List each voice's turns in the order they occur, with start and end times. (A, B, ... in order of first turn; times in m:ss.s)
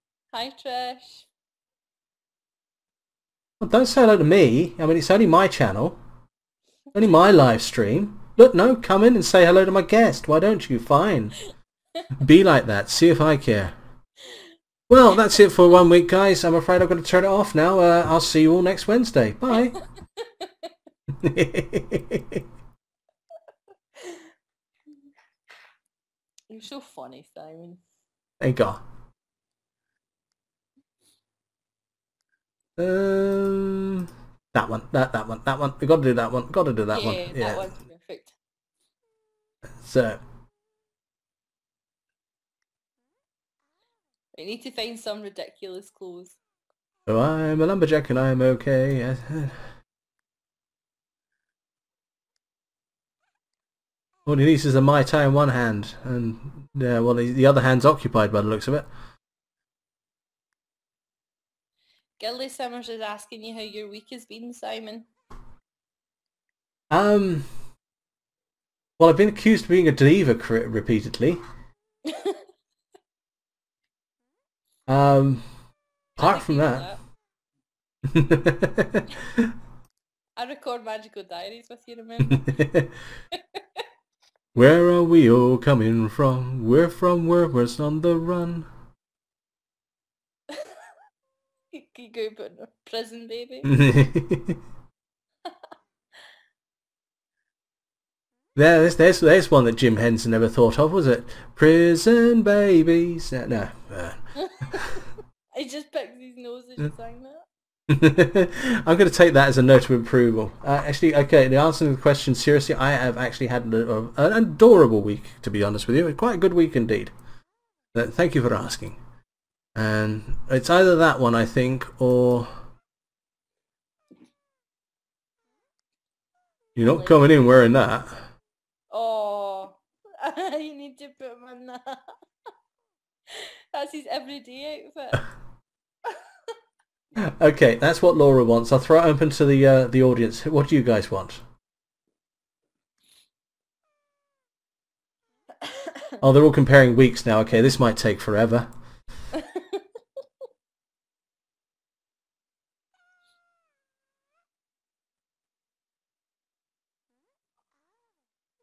0:00.3-0:01.3 A
0:03.6-0:06.0 B
0:06.9-0:11.4 B
0:11.4-0:12.1 A
0:12.1-0:13.7 B
0:14.2-0:14.5 A
0:14.9-0:19.8 B
0:19.5-0:20.7 A
0:21.1-0:22.4 B
0:24.0-0:24.2 A
0:26.5-0:27.8 A
0:28.4-0:28.8 B
0:32.8-0:37.7 B
0:36.9-0:38.3 A
0:39.8-0:40.2 B
0:44.3-0:46.4 A
0:47.0-0:49.6 B
0:54.2-0:58.9 B
1:02.2-1:05.1 A
1:06.9-1:07.5 B
1:09.0-1:11.4 B
1:12.0-1:12.4 A
1:14.9-1:15.4 B
1:16.2-1:16.9 B
1:16.2-1:17.0 A
1:18.0-1:19.5 B
1:20.4-1:22.6 A
1:22.2-1:22.9 B
1:23.3-1:23.8 A
1:24.5-1:28.7 B
1:30.5-1:30.8 A
1:31.7-1:33.7 A
1:33.6-1:34.6 B
1:38.5-1:45.0 B
1:44.4-1:47.4 A
1:47.9-1:57.1 B
1:57.9-1:59.0 B
1:59.7-2:02.6 B
2:06.8-2:08.3 B
2:06.9-2:07.2 A
2:08.9-2:12.2 A
2:13.3-2:15.3 A
2:16.0-2:16.5 A
2:17.1-2:21.4 B
2:25.6-2:26.2 A
2:26.2-2:28.7 B
2:29.3-2:29.8 A